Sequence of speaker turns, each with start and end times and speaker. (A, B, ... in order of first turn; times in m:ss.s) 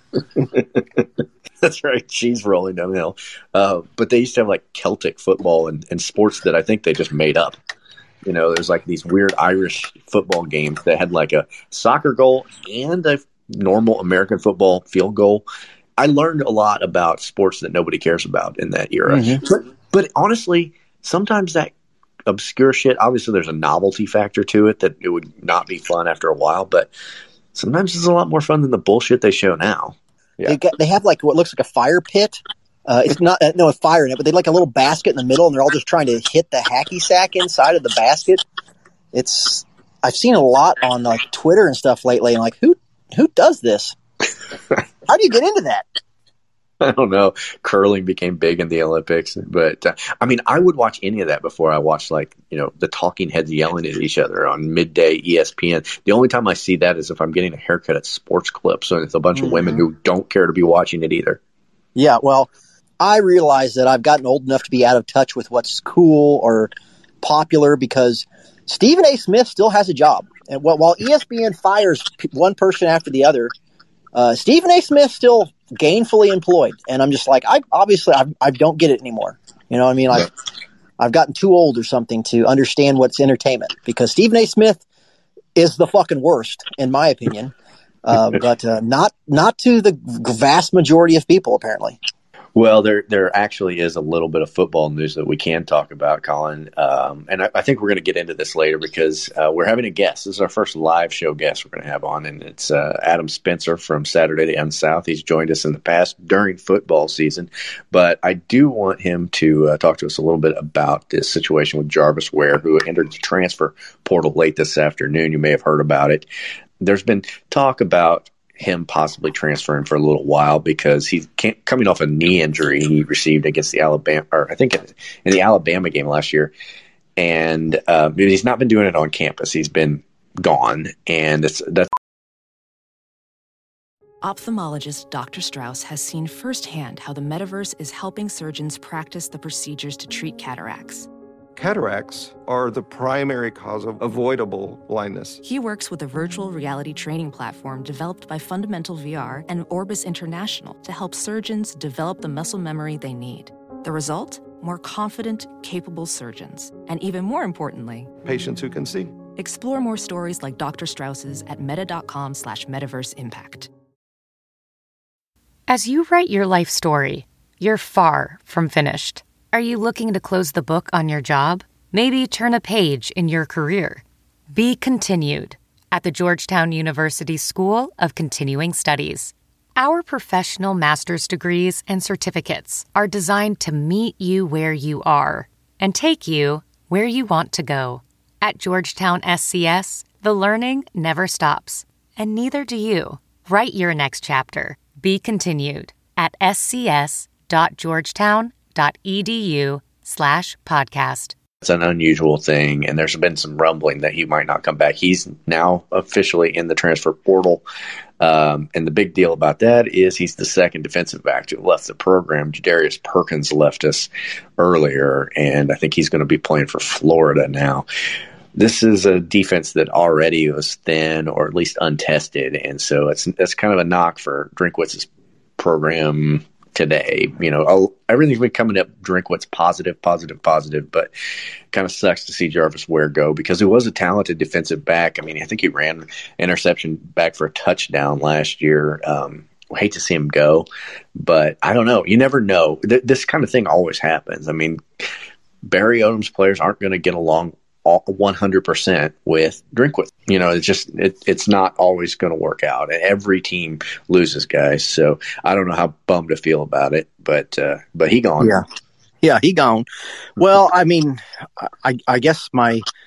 0:00.4-0:07.6 A
0:08.2-0:15.4 A
0:16.0-0:21.7 A
0:19.1-0:19.4 B
0:22.3-0:26.9 A
0:27.5-0:30.6 A
0:30.4-0:38.4 B
0:39.1-0:44.0 B
0:45.1-0:45.8 B
0:46.8-1:01.4 A
0:59.3-0:59.8 B
1:02.0-1:06.7 B
1:07.2-1:13.5 B
1:14.1-1:20.3 B
1:21.0-1:24.8 B
1:25.6-1:27.5 B
1:28.0-1:32.0 B
1:32.5-1:56.3 A
1:56.8-2:06.5 A
2:07.2-2:11.9 A
2:14.2-2:21.1 C
2:21.6-2:25.4 D
2:25.4-2:38.1 C
2:38.2-2:39.1 D
2:39.4-2:43.7 C
2:45.7-3:21.3 E
3:21.6-3:27.6 A
3:28.2-3:37.8 A
3:38.5-3:51.1 A
3:51.7-4:00.7 A
4:01.2-4:04.8 A
4:05.6-4:18.6 A
4:19.2-4:19.8 B
4:20.4-4:22.8 B